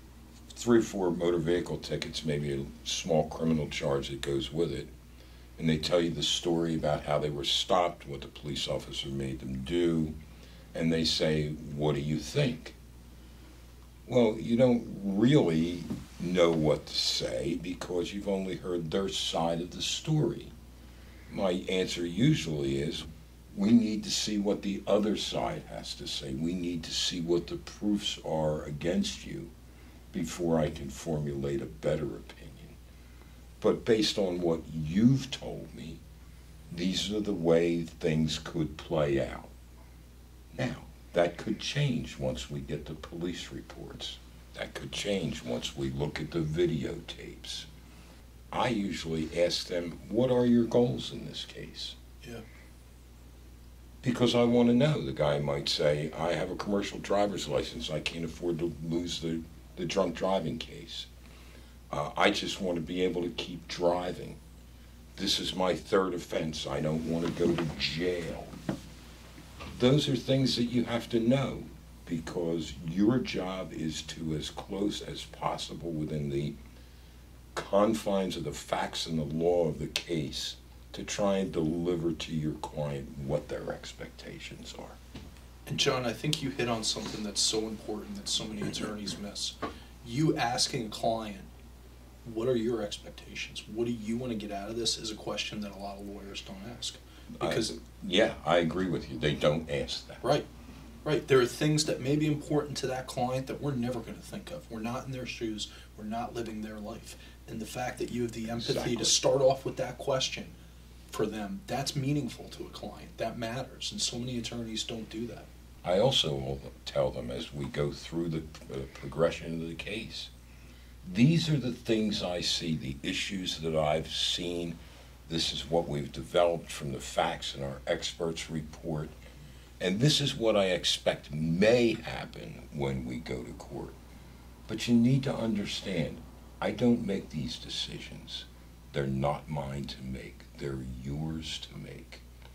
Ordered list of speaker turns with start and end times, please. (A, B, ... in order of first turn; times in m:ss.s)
0:00.5-0:04.9 A
0:05.6-0:10.2 A
0:10.7-0:12.8 A
0:14.0-0:20.5 A
0:21.3-0:29.5 A
0:30.1-0:32.8 A
0:33.6-0:36.0 A
0:36.7-0:39.5 A
0:40.5-0:47.7 A
0:48.5-0:52.0 A
0:54.0-1:01.1 A
1:01.9-1:04.4 A
1:05.2-1:08.5 A
1:09.7-1:16.6 A
1:17.5-1:25.0 A
1:25.7-1:31.5 B
1:32.2-1:37.7 B
1:37.3-1:40.2 A
1:40.2-1:40.5 B
1:41.0-1:50.6 B
1:48.5-1:49.2 A
1:51.1-1:55.5 B
1:55.8-2:00.3 A
2:01.0-2:09.1 A
2:09.8-2:13.9 A
2:14.7-2:22.2 A